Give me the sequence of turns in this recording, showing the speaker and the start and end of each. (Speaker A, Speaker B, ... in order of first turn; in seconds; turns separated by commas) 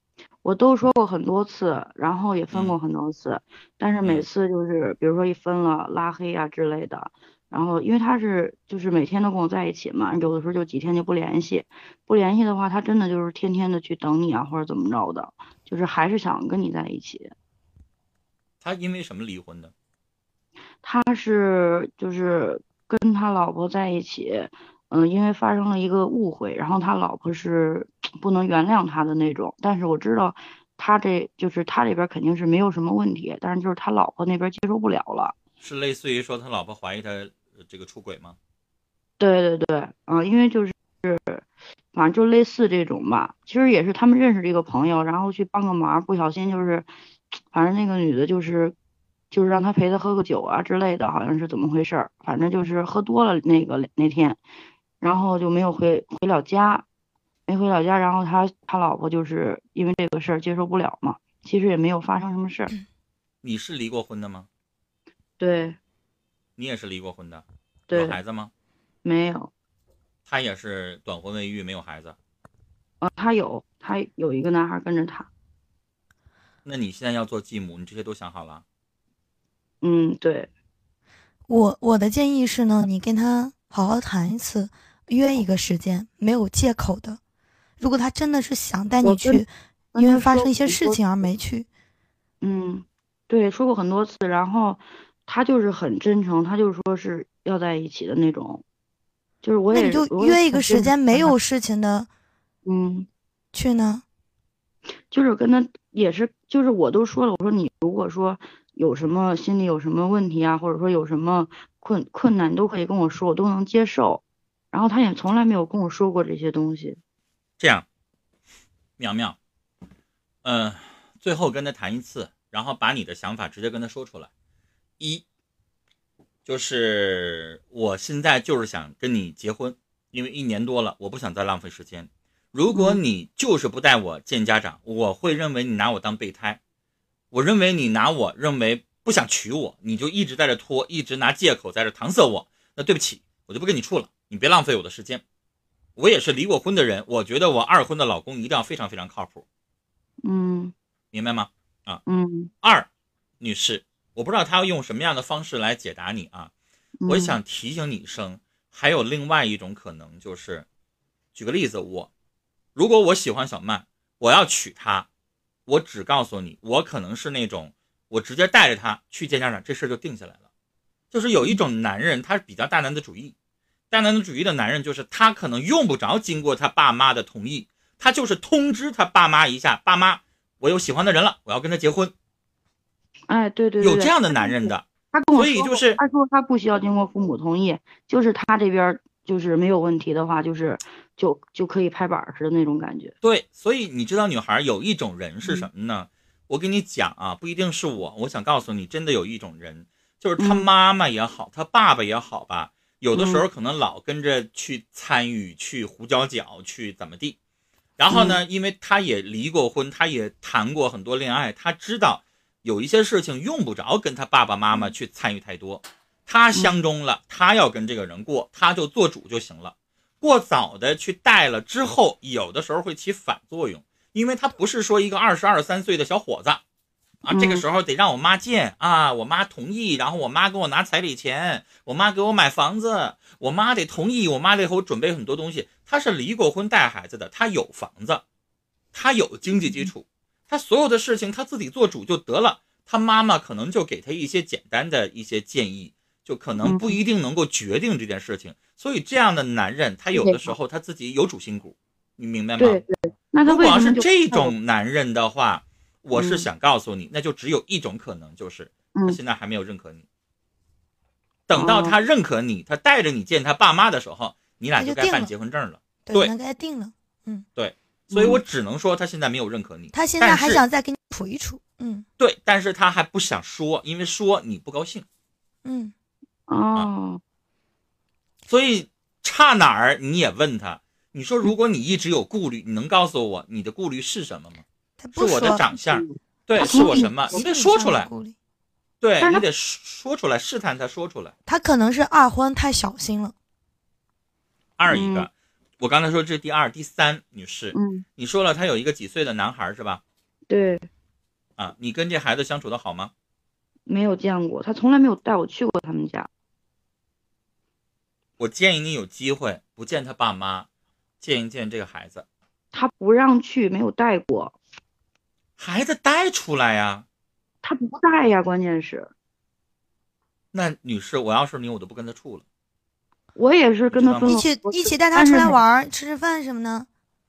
Speaker A: 0.4-17.4, Speaker B: 18.6-19.7, Speaker A: 20.8-35.4, Speaker B: 35.6-38.4, Speaker A: 39.2-48.8, Speaker A: 49.3-54.4, Speaker A: 55.0-56.9, Speaker A: 57.5-62.7, Speaker B: 63.4-64.5, Speaker A: 65.4-65.8, Speaker B: 66.6-68.5, Speaker A: 67.9-68.2, Speaker A: 69.0-69.5, Speaker B: 70.3-72.2, Speaker A: 73.0-75.3, Speaker B: 76.7-78.6, Speaker A: 79.8-80.5, Speaker C: 81.5-87.2, Speaker C: 87.8-91.7, Speaker A: 89.0-91.3, Speaker A: 92.4-98.6, Speaker A: 99.4-101.3, Speaker C: 99.7-102.1, Speaker A: 102.7-103.1, Speaker C: 103.5-104.0, Speaker A: 105.1-117.0, Speaker B: 117.6-117.9, Speaker B: 119.0-119.4, Speaker B: 120.4-124.3, Speaker B: 125.0-125.2, Speaker B: 126.5-136.6, Speaker A: 132.7-133.0, Speaker B: 137.3-145.2, Speaker B: 146.0-149.4, Speaker A: 150.2-150.7, Speaker B: 151.1-152.0, Speaker A: 152.1-152.5, Speaker B: 152.6-152.9, Speaker B: 153.4-156.5, Speaker A: 157.0-157.4, Speaker B: 157.1-160.7, Speaker B: 161.3-162.1, Speaker B: 162.8-165.1, Speaker B: 165.7-170.4, Speaker B: 171.1-173.3, Speaker B: 173.9-182.1, Speaker A: 183.3-193.2, Speaker B: 183.8-186.0, Speaker B: 193.2-207.4, Speaker A: 200.4-200.7, Speaker A: 203.1-203.4, Speaker B: 208.0-226.6, Speaker A: 208.1-208.4, Speaker B: 227.2-238.2, Speaker A: 227.3-227.7, Speaker B: 238.9-252.8, Speaker A: 239.5-239.9, Speaker A: 246.6-247.0, Speaker A: 250.1-250.6, Speaker A: 252.6-254.6, Speaker B: 253.4-260.1, Speaker A: 256.1-256.5, Speaker A: 258.9-259.2, Speaker B: 261.5-266.3, Speaker A: 261.5-262.0, Speaker C: 264.8-265.3, Speaker C: 266.1-267.5, Speaker B: 267.6-270.6, Speaker A: 268.1-268.4, Speaker C: 269.9-272.1, Speaker B: 272.2-275.1, Speaker C: 275.6-275.9, Speaker A: 276.5-277.2, Speaker B: 278.5-284.6, Speaker C: 285.0-285.7, Speaker B: 285.1-288.1, Speaker A: 285.9-287.4, Speaker C: 286.6-288.4, Speaker B: 289.0-291.3, Speaker A: 289.2-289.4, Speaker C: 291.5-293.3, Speaker B: 294.8-300.0, Speaker A: 294.9-295.3, Speaker A: 297.7-298.1, Speaker A: 300.5-300.9, Speaker B: 301.6-303.1, Speaker A: 303.9-306.3, Speaker B: 308.4-310.7, Speaker B: 311.2-312.3, Speaker A: 312.7-314.6, Speaker B: 315.6-317.1, Speaker A: 317.6-319.1, Speaker B: 320.5-322.4, Speaker A: 323.4-325.6, Speaker B: 323.9-324.4, Speaker C: 324.3-326.9